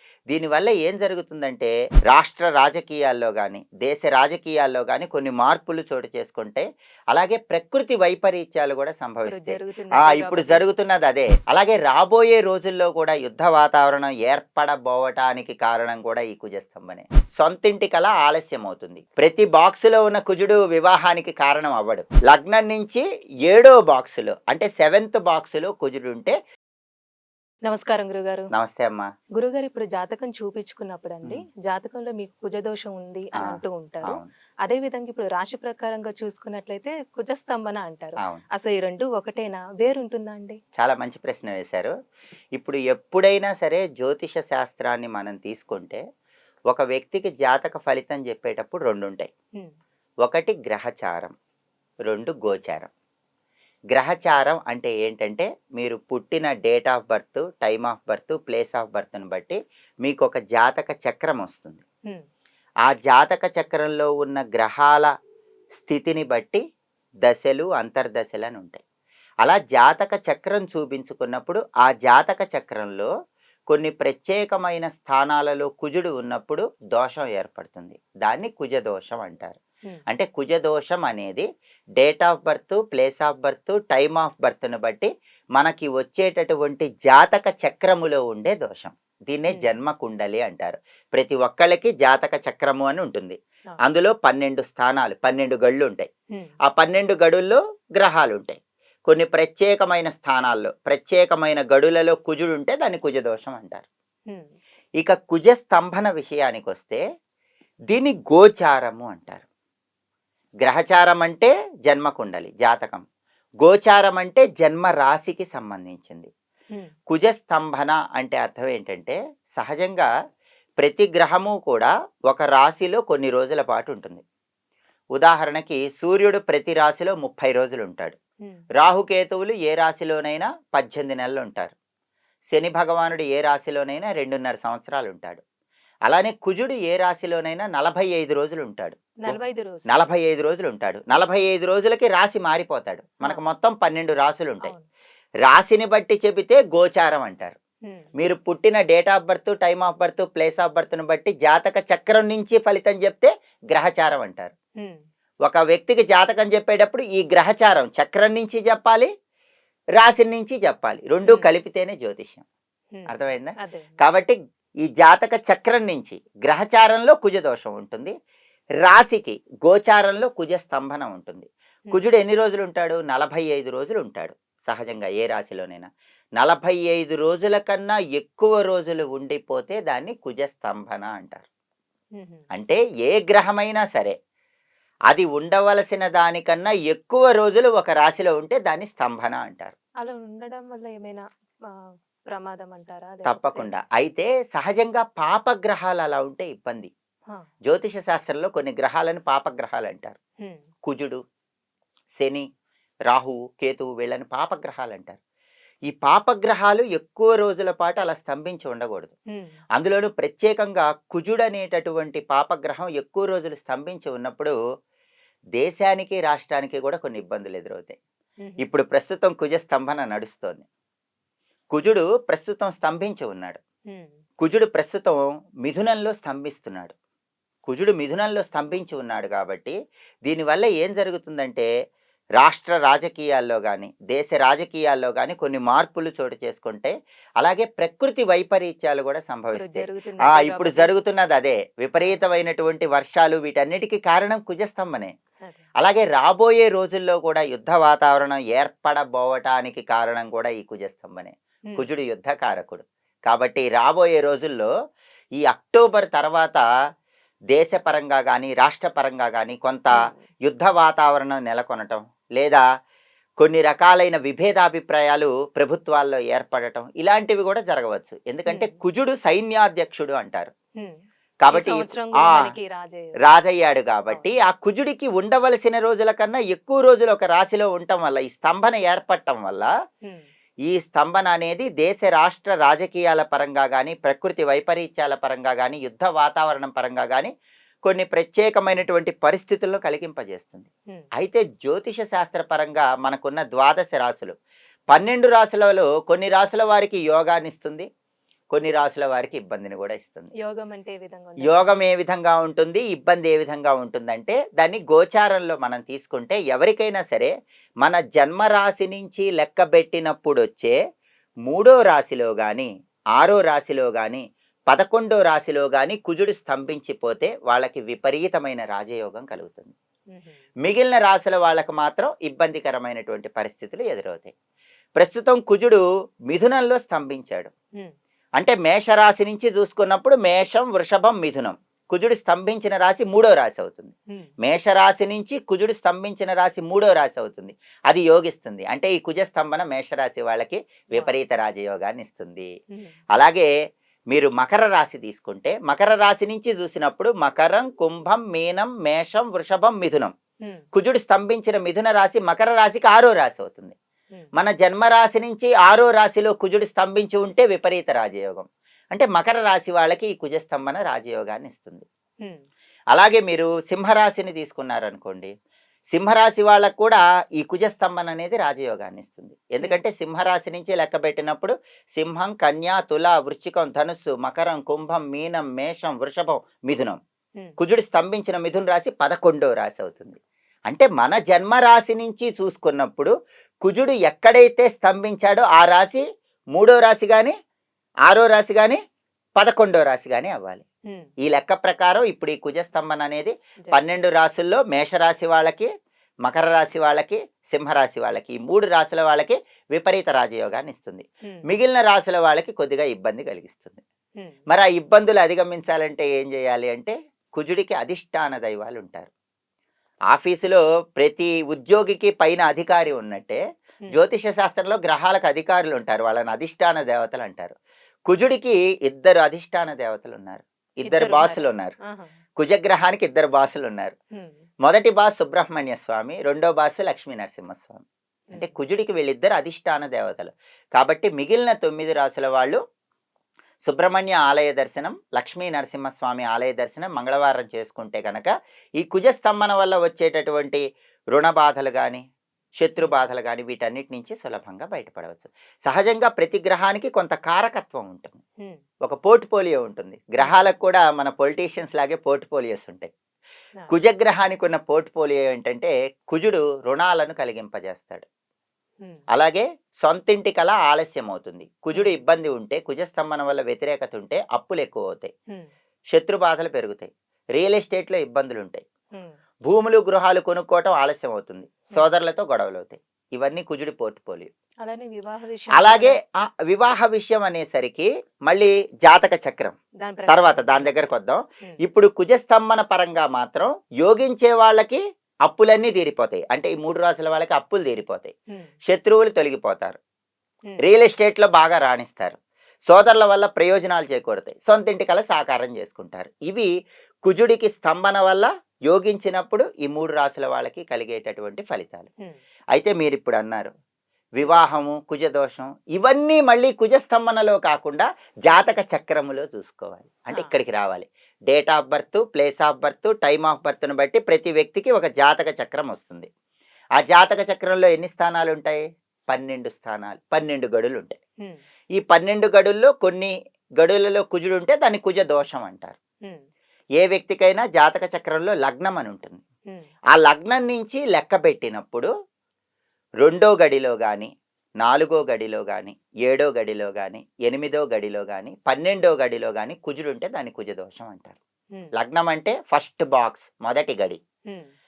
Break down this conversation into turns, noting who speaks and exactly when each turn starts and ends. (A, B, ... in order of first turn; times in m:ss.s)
0:00.3-0:26.4 A
0:09.2-0:10.6 B
0:27.7-0:28.5 B
0:28.5-0:29.1 A
0:29.4-0:40.6 B
0:33.4-0:34.3 A
0:40.8-0:41.9 A
0:42.6-0:46.0 A
0:46.7-0:49.3 A
0:50.2-0:51.3 A
0:52.1-0:52.9 A
0:53.9-1:01.8 A
1:02.9-1:05.1 A
1:05.8-1:06.6 A
1:07.2-1:08.8 A
1:09.4-1:13.1 A
1:13.7-1:19.6 A
1:20.1-1:21.5 A
1:22.0-1:36.1 A
1:36.7-1:43.8 A
1:45.0-1:47.0 A
1:47.9-1:49.4 A
1:50.6-1:53.0 A
1:53.6-1:56.3 A
1:57.1-2:00.1 A
2:00.8-2:04.2 A
2:05.2-2:08.2 A
2:08.8-2:11.7 A
2:12.5-2:15.4 A
2:16.1-2:24.7 A
2:19.2-2:20.0 B
2:25.4-2:27.6 A
2:28.2-2:34.5 A
2:35.5-2:39.1 A
2:40.0-2:42.4 A
2:42.9-2:43.9 B
2:43.1-2:48.1 A
2:48.8-3:01.4 A
3:02.2-3:02.4 B
3:02.5-3:04.2 A
3:05.1-3:09.8 A
3:10.0-3:13.7 B
3:13.3-3:16.9 A
3:17.7-3:20.2 A
3:20.8-3:21.2 A
3:22.2-3:22.4 A
3:23.1-3:25.2 A
3:25.9-3:29.1 A
3:29.8-3:34.5 A
3:35.6-3:38.0 A
3:38.6-3:40.6 A
3:41.7-3:43.6 A
3:43.9-3:44.2 B
3:44.4-3:46.9 A
3:47.6-3:49.7 A
3:50.3-3:51.7 A
3:52.4-4:05.1 A
3:59.5-4:00.9 B
4:05.8-4:14.7 A
4:15.4-4:16.6 A
4:17.5-4:19.9 A
4:20.5-4:22.6 A
4:23.4-4:30.5 A
4:28.5-4:28.7 B
4:31.4-4:32.5 A
4:31.5-4:33.2 B
4:33.2-4:39.7 A
4:40.7-4:47.3 A
4:47.8-4:54.4 A
4:54.9-4:57.9 A
4:58.5-5:00.3 A
5:00.4-5:01.8 B
5:01.4-5:07.3 A
5:07.8-5:10.8 A
5:11.5-5:12.7 A
5:13.2-5:19.7 A
5:20.1-5:20.4 B
5:20.6-5:24.3 A
5:25.0-5:27.5 A
5:28.4-5:42.5 A
5:43.1-5:43.5 A
5:44.1-5:50.1 A
5:50.7-5:53.8 A
5:54.4-6:01.8 A
6:02.9-6:05.3 A
6:05.9-6:17.0 A
6:17.6-6:23.1 A
6:23.6-6:26.0 A
6:26.6-6:27.3 A
6:28.1-6:28.8 A
6:29.4-6:30.6 A
6:31.2-6:35.7 A
6:36.2-6:43.8 A
6:44.5-6:49.1 A
6:50.1-6:53.4 A
6:53.9-6:57.5 A
6:58.1-7:01.7 A
7:00.8-7:02.1 B
7:02.4-7:03.9 A
7:04.6-7:12.6 A
7:13.6-7:20.6 A
7:21.1-7:22.0 A
7:22.6-7:28.2 A
7:22.8-7:23.1 B
7:28.8-7:32.9 A
7:30.2-7:30.4 B
7:33.7-7:38.0 A
7:39.1-7:45.1 A
7:45.9-7:48.6 A
7:49.5-7:54.3 A
7:54.6-7:56.0 B
7:55.5-7:59.6 A
7:59.8-8:00.7 B
8:00.1-8:08.1 A
8:08.7-8:09.8 A
8:10.6-8:16.5 A
8:17.0-8:21.9 A
8:22.5-8:23.5 A
8:24.2-8:36.1 A
8:36.8-8:41.0 A
8:41.8-8:45.8 A
8:46.8-8:49.2 A
8:49.9-8:51.9 A
8:53.0-8:54.1 A
8:54.6-9:01.2 A
9:01.7-9:04.0 A